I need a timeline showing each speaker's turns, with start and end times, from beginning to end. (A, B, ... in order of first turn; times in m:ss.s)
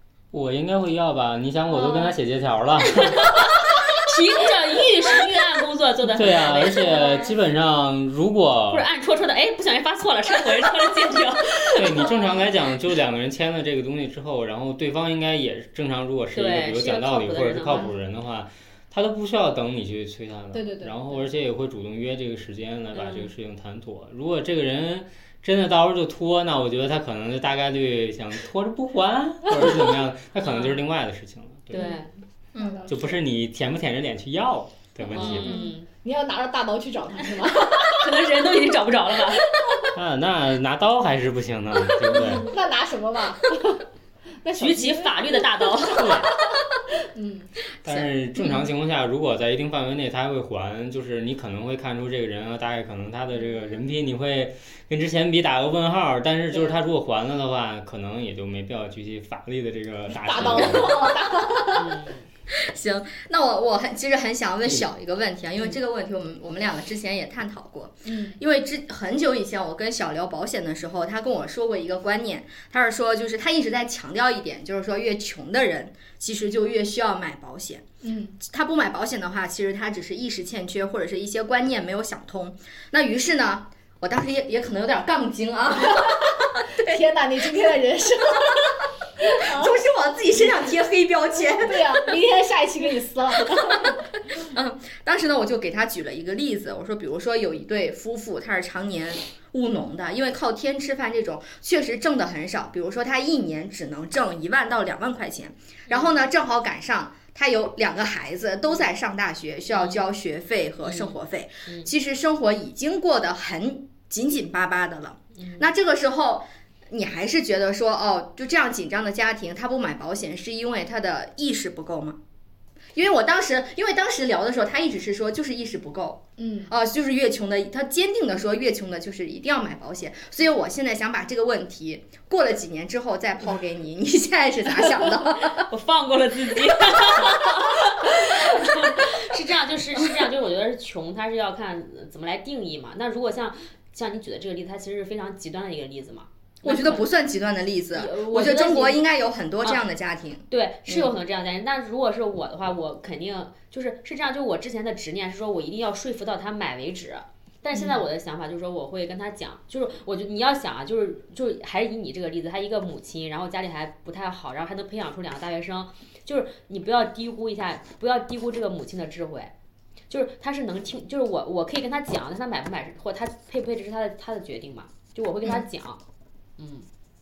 0:00.3-0:03.4 A
0:01.7-0:02.1 B
0:02.8-0:07.3 B
0:06.1-0:08.9 A
0:06.8-0:07.3 C
0:08.7-0:12.2 B
0:11.7-0:32.0 A
0:16.3-0:17.9 B
0:20.5-0:21.2 C
0:22.9-0:23.3 B
0:30.4-0:30.8 B
0:31.7-0:32.1 B
0:31.7-0:33.2 C
0:32.5-0:32.9 D
0:32.9-0:35.6 A
0:35.1-0:35.9 B
0:35.1-0:38.2 C
0:37.5-0:39.4 B
0:39.4-0:39.9 C
0:39.9-0:42.5 A
0:42.1-0:43.8 C
0:44.4-0:46.6 C
0:44.6-0:46.3 B
0:45.9-0:46.3 A
0:47.1-0:47.5 C
0:47.8-1:01.2 A
1:00.1-1:02.0 C
1:01.7-1:02.2 B
1:02.5-1:17.8 D
1:08.0-1:08.4 C
1:18.0-1:18.4 C
1:18.4-1:27.0 D
1:26.7-1:29.8 C
1:29.3-1:32.0 D
1:31.3-1:34.0 C
1:34.4-2:02.2 D
1:45.9-1:46.2 B
1:49.7-1:50.0 B
1:50.8-1:51.2 B
1:55.4-1:55.7 B
2:02.9-2:15.7 D
2:06.4-2:06.7 C
2:15.6-2:27.1 B
2:26.6-2:31.1 D
2:27.9-2:29.0 B
2:29.6-2:29.9 B
2:30.5-2:49.5 B
2:37.7-2:38.0 D
2:50.1-2:56.0 B
2:56.6-2:56.9 B